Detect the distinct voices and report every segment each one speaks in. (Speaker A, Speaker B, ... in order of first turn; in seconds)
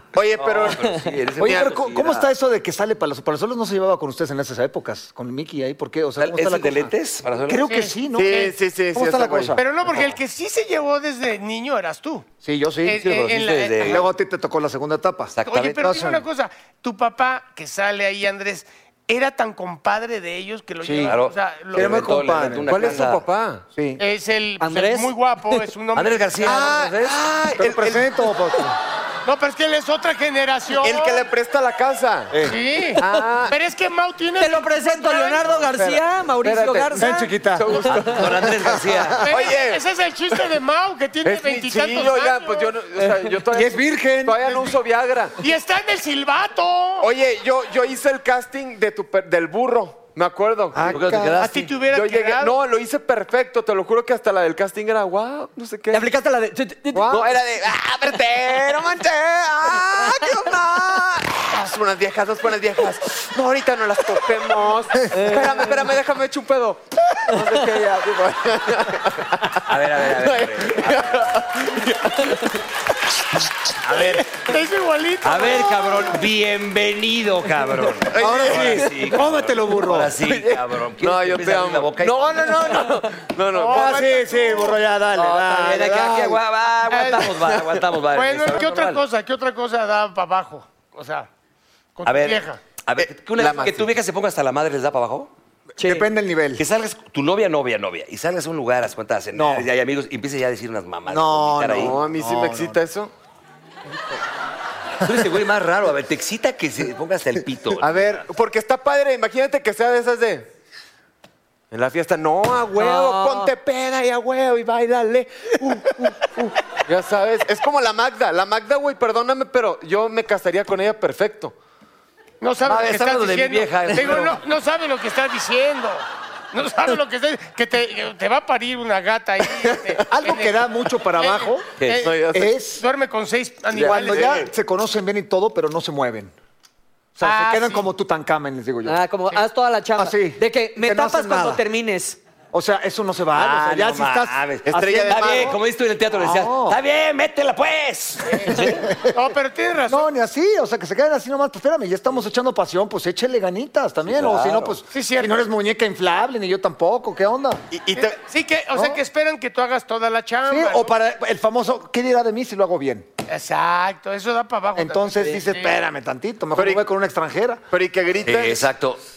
Speaker A: 0.1-1.8, 8.1-9.6, 22.7-23.6, 26.4-28.1, 30.8-32.5, 33.0-33.5, 35.8-38.5, 39.3-39.8, 41.2-45.4, 47.0-51.0, 51.9-56.1, 57.1-72.6, 78.1-78.9, 80.2-84.6, 87.2-87.7, 93.0-93.9, 101.7-103.1, 107.9-110.5, 111.7-121.5, 129.6-130.0, 131.9-132.6, 133.8-134.5, 144.7-145.6, 157.7-158.2, 166.6-166.9, 167.7-168.7
Speaker B: 0.4-2.3, 6.2-7.7, 13.0-14.1, 15.3-16.0, 21.0-23.2, 25.9-27.2, 38.0-39.2, 50.9-51.7, 69.7-71.4, 73.8-74.5, 75.2-82.7, 85.1-89.0, 92.0-95.3, 96.6-102.0, 105.0-108.2, 122.7-124.4, 131.8-132.1, 143.3-148.7, 154.1-154.8, 168.2-169.0
Speaker C: 1.4-6.9, 7.5-8.4, 8.9-9.6, 12.4-13.0, 13.8-16.2, 20.8-21.2, 21.7-22.9, 23.8-24.0, 27.6-28.8, 32.3-32.6, 37.0-39.1, 43.5-44.6, 50.7-51.4, 56.9-57.3, 65.0-65.3, 78.2-80.2, 83.6-86.4, 95.8-96.6, 99.3-99.7, 101.1-102.8, 107.8-108.2, 130.1-131.7, 132.3-132.8, 133.7-136.3, 137.2-139.0, 140.0-141.6, 142.5-145.6, 146.2-146.8, 148.4-149.2, 149.9-157.6, 158.8-159.0, 160.5-163.1, 164.8-167.6
Speaker D: 7.6-8.6, 9.6-12.3, 12.8-14.0, 15.4-21.9, 24.0-26.6, 29.2-31.2, 32.5-35.7, 39.2-42.7, 45.4-47.1, 51.4-52.6, 74.3-76.0, 83.5-84.8, 86.9-87.3, 88.1-91.3, 92.0-92.6, 122.4-130.6, 131.1-134.4, 137.2-137.9, 148.6-150.1, 154.9-155.4, 157.9-160.9, 163.3-165.7
Speaker E: 24.6-25.6, 34.4-37.3, 55.9-57.2, 65.1-65.7, 95.8-96.1, 112.8-113.5, 138.8-142.2